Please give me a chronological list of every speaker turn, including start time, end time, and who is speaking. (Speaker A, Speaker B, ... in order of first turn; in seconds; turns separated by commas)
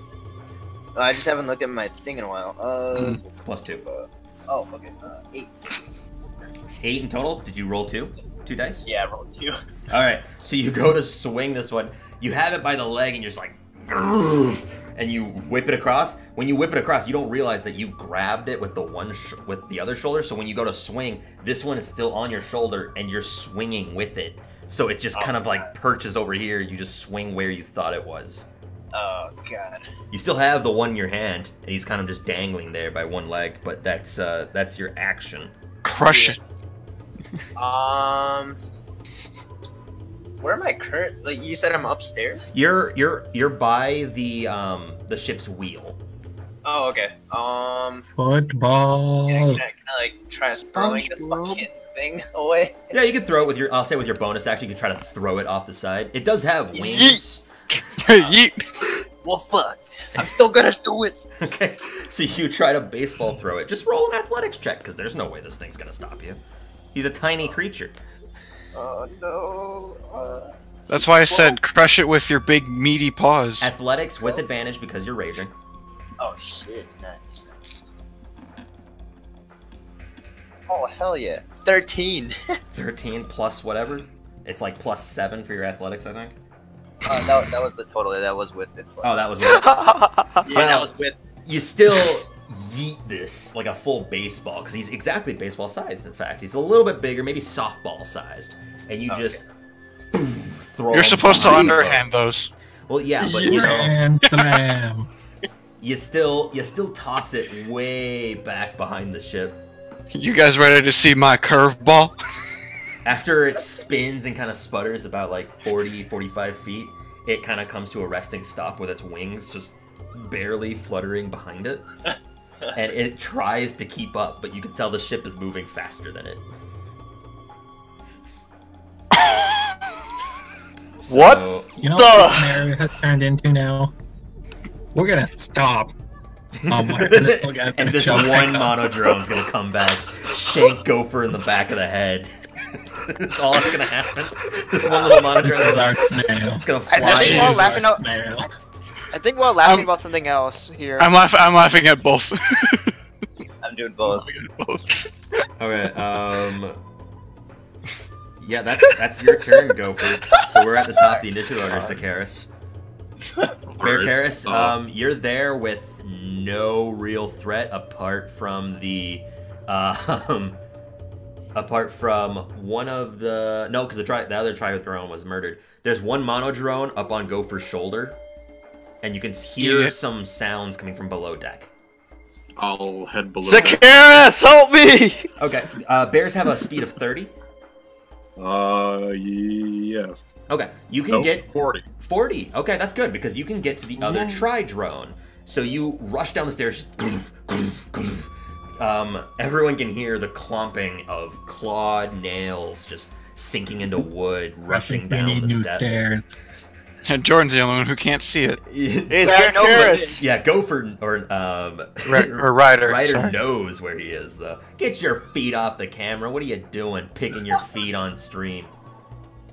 Speaker A: 0.9-3.2, Speaker B: 2.9-3.2, Speaker C: 3.4-3.9, Speaker A: 3.9-5.8, Speaker C: 6.8-8.9, Speaker A: 8.8-9.6, Speaker C: 9.9-28.5, Speaker A: 25.1-25.7, Speaker A: 28.9-29.9, Speaker C: 30.1-35.5, Speaker B: 35.8-36.4, Speaker A: 36.0-36.4, Speaker A: 37.6-38.6, Speaker A: 40.4-42.5, Speaker C: 42.5-46.0, Speaker A: 46.6-48.0, Speaker D: 48.1-49.6, Speaker A: 49.3-52.8, Speaker B: 50.7-51.6, Speaker C: 52.9-57.4, Speaker A: 56.7-57.2, Speaker B: 58.0-58.7, Speaker A: 59.2-61.2, Speaker C: 61.4-66.4, Speaker C: 66.9-68.0, Speaker A: 68.7-71.6, Speaker B: 70.9-73.7, Speaker C: 73.6-75.5, Speaker A: 76.2-77.7, Speaker A: 80.7-82.4, Speaker C: 82.7-86.4, Speaker A: 87.0-89.2, Speaker C: 89.0-99.4, Speaker E: 89.7-90.0, Speaker A: 90.5-91.2, Speaker A: 99.1-99.4, Speaker C: 100.1-102.1, Speaker B: 100.9-102.5, Speaker C: 102.9-104.0, Speaker D: 103.3-105.1, Speaker B: 103.3-104.5, Speaker C: 105.8-109.6, Speaker B: 110.1-112.2, Speaker C: 113.0-121.9, Speaker C: 122.7-126.5, Speaker B: 129.2-129.6, Speaker C: 131.0-131.7, Speaker F: 131.1-132.6, Speaker D: 131.8-133.9, Speaker D: 134.9-135.9, Speaker C: 136.6-142.3, Speaker D: 136.7-138.9, Speaker C: 143.0-147.8, Speaker D: 145.3-148.5, Speaker E: 146.9-148.0, Speaker E: 149.1-151.1, Speaker B: 149.6-149.9, Speaker B: 151.0-152.9, Speaker A: 153.6-154.3, Speaker B: 154.0-155.1, Speaker C: 155.6-156.8, Speaker C: 158.4-162.5, Speaker G: 163.7-164.8, Speaker C: 163.8-170.6, Speaker C: 171.6-178.2, Speaker C: 179.0-181.7, Speaker B: 179.6-179.9, Speaker G: 182.6-184.2, Speaker F: 183.4-185.3, Speaker C: 185.4-187.3, Speaker G: 188.4-190.2, Speaker C: 190.5-206.1, Speaker G: 191.1-191.9, Speaker D: 204.7-206.3, Speaker B: 207.1-208.6, Speaker C: 208.7-218.7, Speaker F: 209.1-210.2, Speaker A: 209.2-210.2, Speaker B: 212.1-213.4